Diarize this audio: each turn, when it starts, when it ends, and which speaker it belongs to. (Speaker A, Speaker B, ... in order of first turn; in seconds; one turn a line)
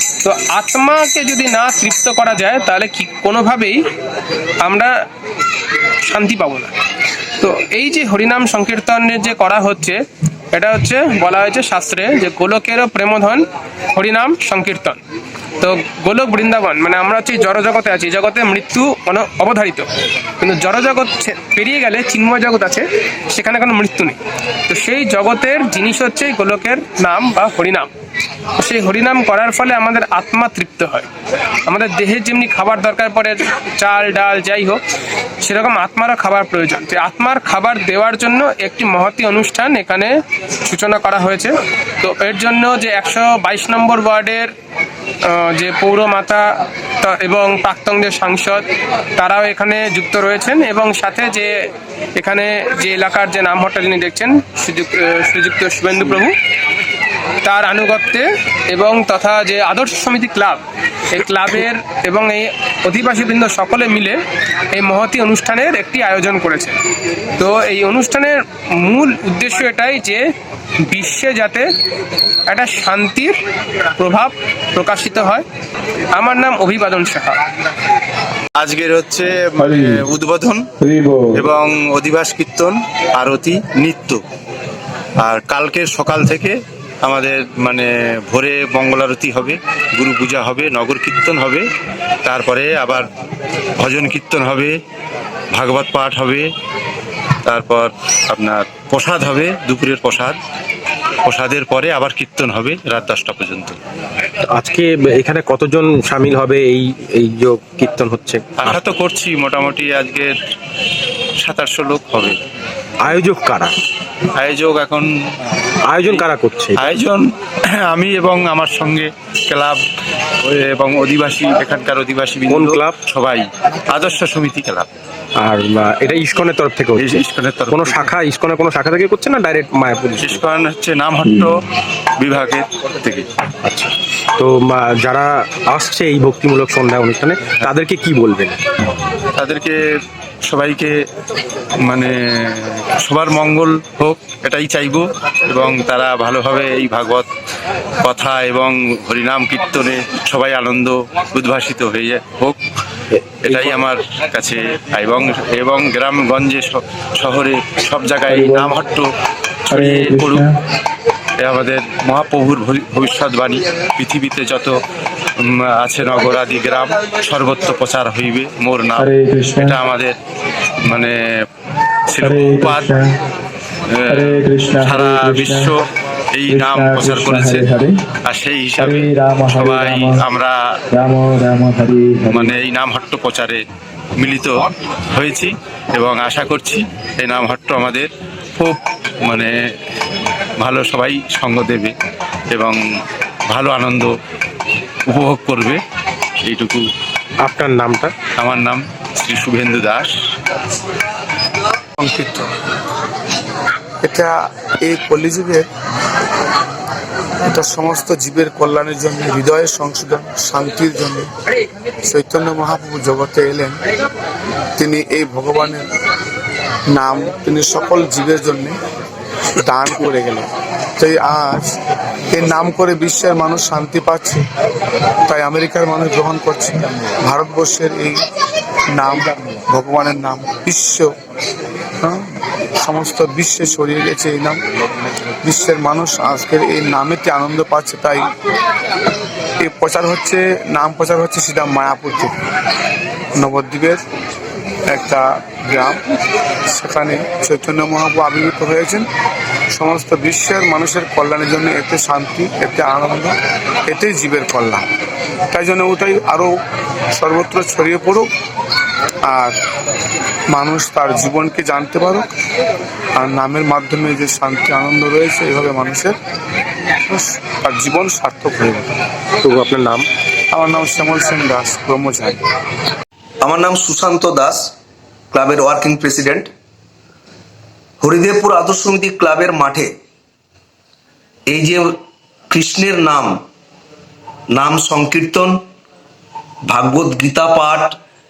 Speaker A: 0.2-3.8
Speaker A: 4.6-4.9
Speaker A: 6.0-6.8
Speaker A: 7.4-10.0
Speaker A: 10.5-15.0
Speaker A: 15.6-19.9
Speaker A: 20.4-24.2
Speaker A: 24.7-27.9
Speaker A: 28.6-31.1
Speaker A: 31.6-34.8
Speaker A: 35.4-44.5
Speaker A: 45.2-56.4
Speaker A: 57.4-64.2
Speaker A: 64.7-66.8
Speaker A: 67.4-70.2
Speaker A: 70.8-71.7
Speaker A: 72.5-73.4
Speaker A: 74.0-75.4
Speaker A: 76.1-77.4
Speaker B: 78.6-80.7
Speaker C: 80.8-81.2
Speaker B: 81.3-84.2
Speaker B: 85.2-91.7
Speaker B: 92.2-93.1
Speaker B: 93.8-94.8
Speaker B: 95.5-96.5
Speaker B: 97.5-100.4
Speaker B: 101.2-103.8
Speaker D: 104.5-108.8
Speaker B: 108.6-110.3
Speaker B: 111.4-112.4
Speaker D: 113.0-113.8
Speaker B: 114.3-115.1
Speaker D: 115.8-116.8
Speaker B: 116.0-119.8
Speaker B: 120.4-124.9
Speaker D: 122.5-123.0
Speaker D: 125.4-127.1
Speaker B: 127.0-128.2
Speaker D: 127.7-130.4
Speaker B: 130.2-131.6
Speaker B: 132.2-133.3
Speaker D: 133.6-138.6
Speaker B: 139.4-139.8
Speaker B: 140.5-140.9
Speaker B: 141.8-147.3
Speaker B: 148.0-152.6
Speaker B: 153.4-159.1
Speaker C: 158.3-158.7
Speaker B: 159.7-160.5
Speaker C: 159.7-160.5
Speaker B: 161.4-164.8
Speaker B: 165.4-170.2
Speaker C: 169.0-169.8
Speaker B: 170.8-171.2
Speaker B: 172.1-173.0
Speaker C: 172.2-173.0
Speaker B: 173.9-177.7
Speaker C: 174.1-175.6
Speaker C: 176.5-177.9
Speaker B: 178.3-180.8
Speaker C: 178.8-180.2
Speaker C: 181.0-182.5
Speaker B: 182.2-183.6
Speaker B: 184.2-184.6
Speaker B: 185.1-189.5
Speaker B: 190.6-191.9
Speaker B: 192.5-192.8
Speaker B: 193.5-194.1
Speaker B: 195.1-195.8
Speaker B: 196.4-196.9
Speaker D: 197.4-198.1
Speaker B: 198.3-200.1
Speaker C: 202.0-202.5
Speaker C: 204.0-205.7
Speaker C: 207.5-211.3
Speaker C: 212.1-213.8
Speaker C: 214.8-215.9
Speaker C: 216.9-218.8
Speaker C: 219.6-220.5
Speaker C: 221.0-221.8
Speaker C: 222.3-224.4
Speaker C: 225.3-228.2
Speaker C: 228.9-231.1
Speaker C: 232.0-234.6
Speaker C: 235.4-238.3
Speaker C: 239.6-242.3
Speaker C: 243.4-244.0
Speaker C: 244.9-246.0
Speaker C: 246.7-249.1
Speaker C: 249.7-253.3
Speaker C: 253.9-254.9
Speaker C: 255.5-256.6
Speaker C: 257.1-258.3
Speaker C: 259.2-259.6
Speaker C: 260.5-262.3
Speaker C: 263.2-266.2
Speaker C: 267.1-269.0
Speaker D: 269.4-270.1
Speaker C: 270.5-272.4
Speaker E: 273.4-274.7
Speaker E: 275.3-276.5
Speaker E: 278.0-279.9
Speaker E: 281.5-282.0
Speaker E: 282.5-283.4
Speaker E: 284.5-285.6
Speaker E: 286.7-288.0